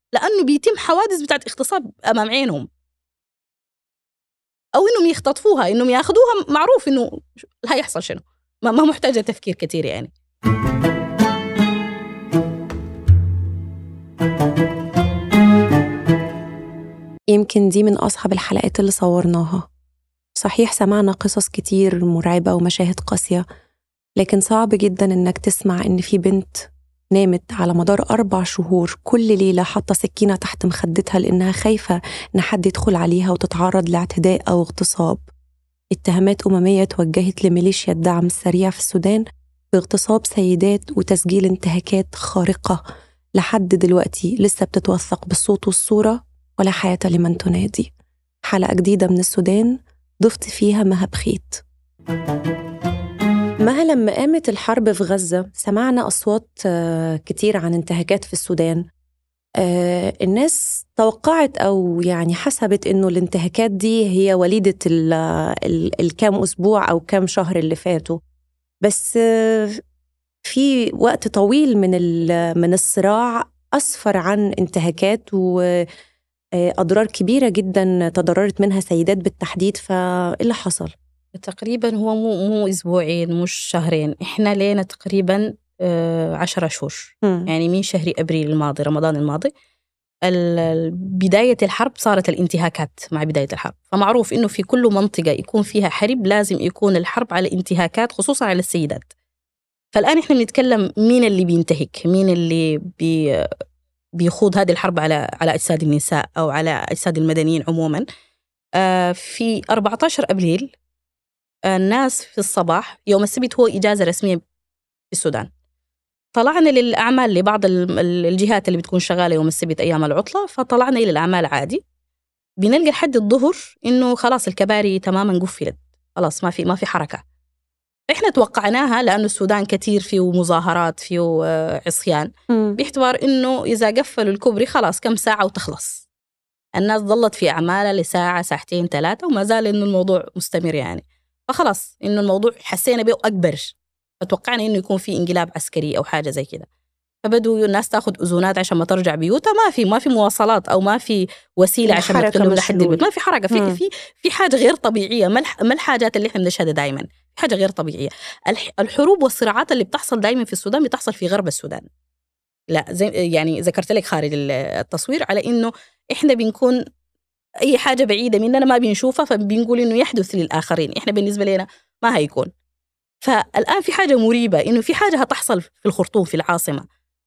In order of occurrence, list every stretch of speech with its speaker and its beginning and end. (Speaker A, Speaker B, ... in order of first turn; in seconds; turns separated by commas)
Speaker A: 0.1-2.6, Speaker A: 4.7-10.1, Speaker B: 17.3-19.6, Speaker B: 20.4-23.4, Speaker B: 24.2-35.2, Speaker B: 35.9-42.8, Speaker B: 43.4-47.9, Speaker B: 48.5-51.6, Speaker B: 53.6-58.8, Speaker B: 59.6-68.2, Speaker B: 68.8-69.8, Speaker B: 70.4-75.6, Speaker B: 76.6-80.9, Speaker A: 81.3-89.5, Speaker B: 87.2-87.5, Speaker A: 90.3-99.1, Speaker A: 99.9-103.5, Speaker A: 104.2-108.0, Speaker A: 108.8-110.7, Speaker A: 111.7-114.4, Speaker A: 115.1-115.5, Speaker A: 116.3-121.8, Speaker A: 122.6-127.2, Speaker A: 128.1-136.1, Speaker B: 132.5-132.8, Speaker A: 136.8-146.7, Speaker A: 147.2-161.9, Speaker B: 151.9-153.8, Speaker A: 162.7-166.8, Speaker A: 167.6-172.5, Speaker A: 173.2-176.8